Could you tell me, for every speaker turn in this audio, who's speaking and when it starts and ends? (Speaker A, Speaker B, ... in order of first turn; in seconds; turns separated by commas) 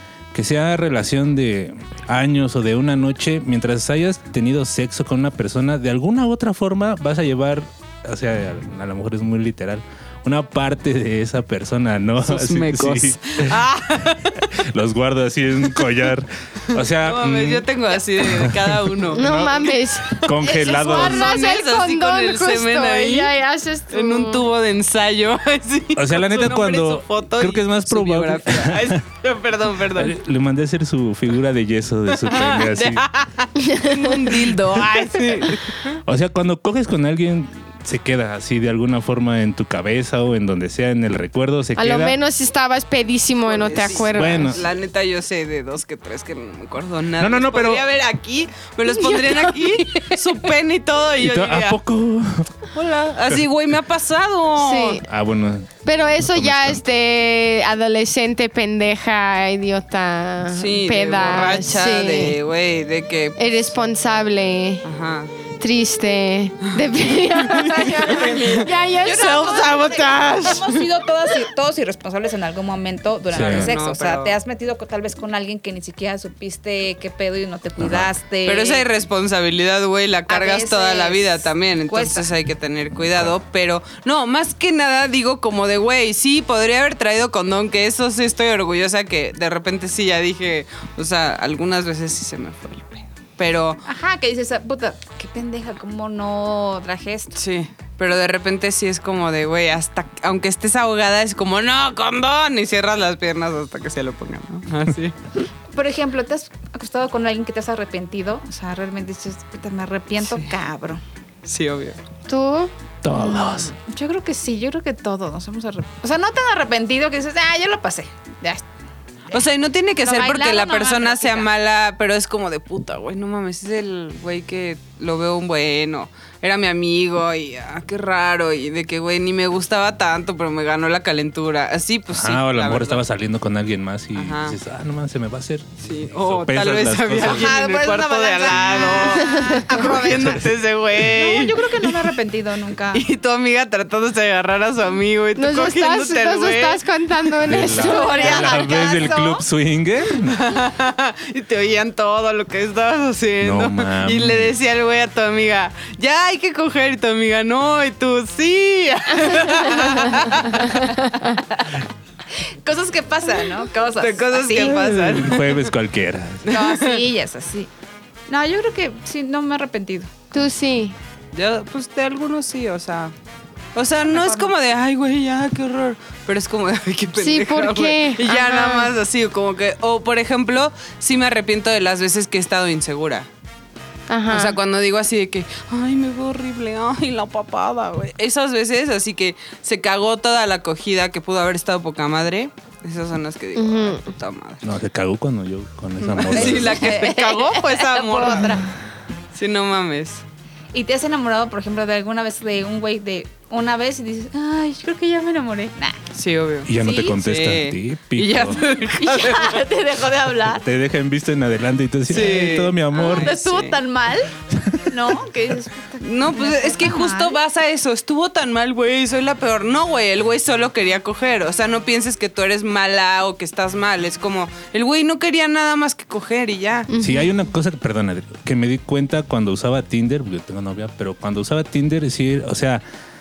Speaker A: 0.3-13.6, Speaker B: 12.2-14.4, Speaker A: 14.5-17.7, Speaker B: 16.7-19.7, Speaker A: 18.2-19.7, Speaker C: 19.1-24.5, Speaker A: 20.2-21.3, Speaker B: 20.3-23.3, Speaker B: 23.9-30.1, Speaker A: 25.9-29.0, Speaker A: 29.9-33.0, Speaker B: 32.1-36.0, Speaker C: 33.6-34.5, Speaker A: 36.0-42.1, Speaker C: 41.8-44.6, Speaker B: 43.5-51.8, Speaker A: 43.8-44.6, Speaker A: 47.2-47.8, Speaker C: 48.9-50.2, Speaker A: 51.2-52.6, Speaker B: 52.7-55.0, Speaker C: 54.6-55.0, Speaker A: 55.1-56.8, Speaker C: 55.8-62.4, Speaker B: 60.5-63.4, Speaker C: 63.4-64.8, Speaker B: 64.8-65.3, Speaker C: 65.6-69.7, Speaker B: 67.4-70.8, Speaker D: 68.1-78.8, Speaker A: 73.3-73.7, Speaker B: 73.3-74.3, Speaker A: 77.8-78.1, Speaker B: 78.4-93.8, Speaker D: 80.3-82.3, Speaker D: 93.8-97.3, Speaker B: 97.3-105.2, Speaker D: 105.7-111.0, Speaker B: 110.2-110.5, Speaker B: 111.4-112.0, Speaker C: 112.3-112.7, Speaker A: 113.0-113.7, Speaker D: 113.1-118.6, Speaker B: 119.3-133.0, Speaker D: 120.0-121.5, Speaker A: 132.1-137.5, Speaker B: 134.1-134.6, Speaker B: 135.8-142.1, Speaker D: 137.2-143.0, Speaker A: 138.5-139.1, Speaker C: 139.2-139.7, Speaker B: 142.9-146.8, Speaker C: 145.4-148.6, Speaker A: 147.5-150.4, Speaker D: 147.6-149.4, Speaker B: 150.2-160.8, Speaker A: 153.4-154.5, Speaker C: 159.5-161.4, Speaker D: 160.6-165.2, Speaker B: 163.9-165.7, Speaker A: 164.7-166.5, Speaker B: 166.4-167.0, Speaker D: 166.4-167.7, Speaker D: 168.3-170.2, Speaker C: 170.3-170.9, Speaker B: 171.3-173.1, Speaker B: 173.7-183.3, Speaker D: 174.1-174.5, Speaker C: 177.2-178.9, Speaker C: 184.1-184.6, Speaker B: 184.3-194.6, Speaker C: 193.6-194.1, Speaker A: 194.6-196.9, Speaker B: 196.0-198.6, Speaker D: 196.3-198.7, Speaker B: 199.3-200.2, Speaker D: 200.7-206.0, Speaker B: 206.1-209.6, Speaker A: 206.7-208.6, Speaker D: 206.8-207.2, Speaker D: 208.9-210.6, Speaker A: 210.5-213.3, Speaker B: 212.1-213.8, Speaker D: 212.9-214.3, Speaker A: 214.5-214.8, Speaker D: 214.9-217.4, Speaker B: 216.0-226.9, Speaker C: 226.9-227.3, Speaker A: 227.0-232.8